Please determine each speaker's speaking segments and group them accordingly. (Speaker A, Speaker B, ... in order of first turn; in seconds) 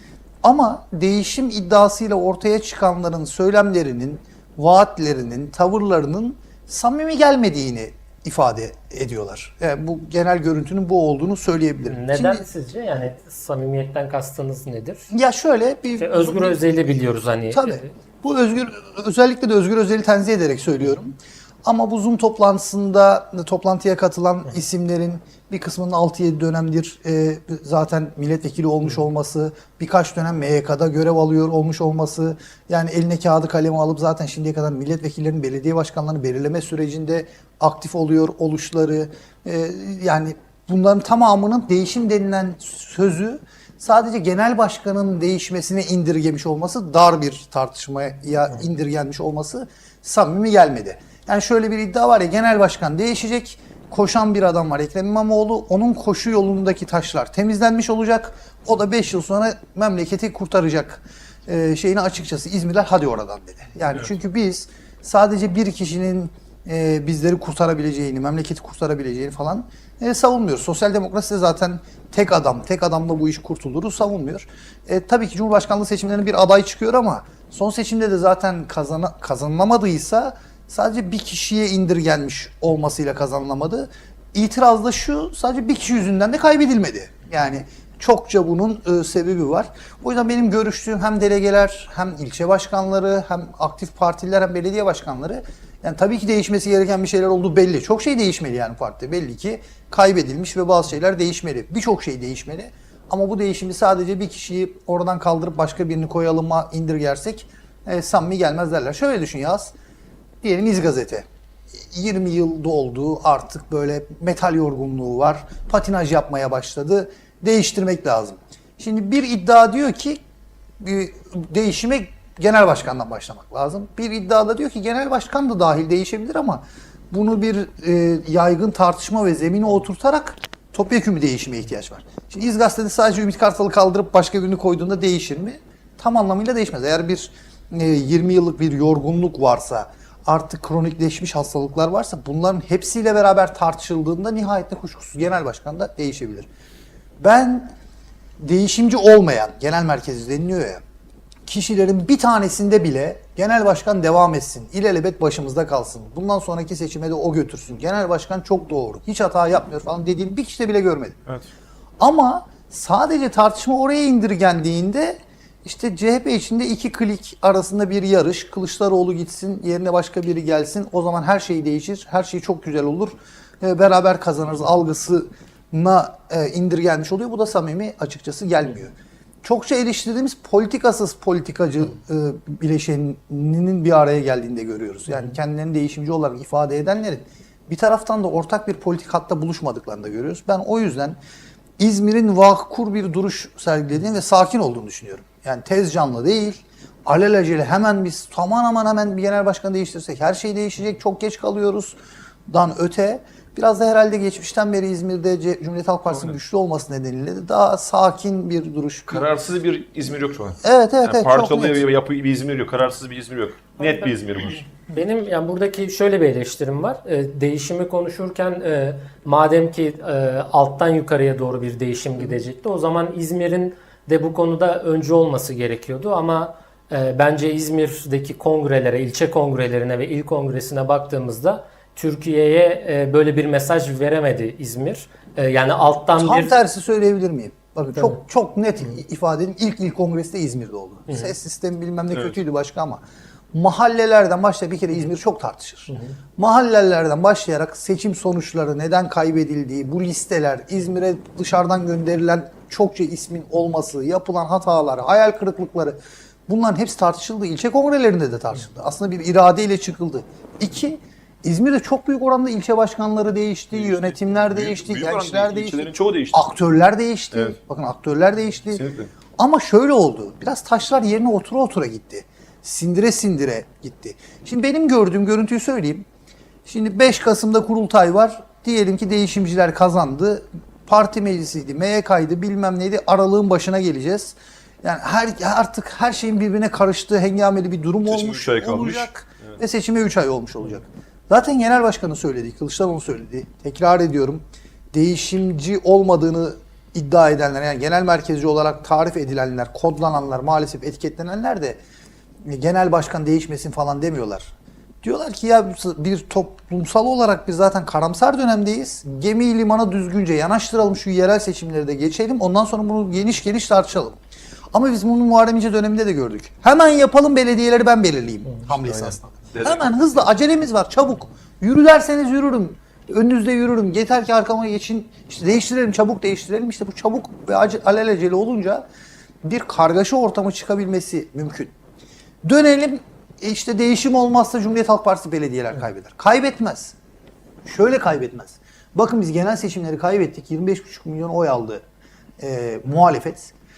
Speaker A: 0.4-12.4, 15.1-16.8, 17.5-109.7, 110.4-111.2, 111.8-120.2, 120.8-146.5, 147.2-147.7, 148.4-150.8, 151.5-161.2, 162.0-191.2, 191.8-201.9, 202.5-209.3, 210.6-211.8, 236.2-243.0, 243.5-268.8, 269.4-276.0, 276.6-301.8, 302.4-314.2, 314.7-328.8, 329.4-331.7, 332.4-336.9, 337.6-341.8, 342.4-343.5
Speaker B: 11.9-15.0, 16.0-17.9, 213.8-214.1, 214.9-236.6, 245.9-246.2
Speaker C: 209.1-214.6, 242.1-242.4, 263.7-266.4, 268.7-269.1, 288.1-289.5, 318.7-319.9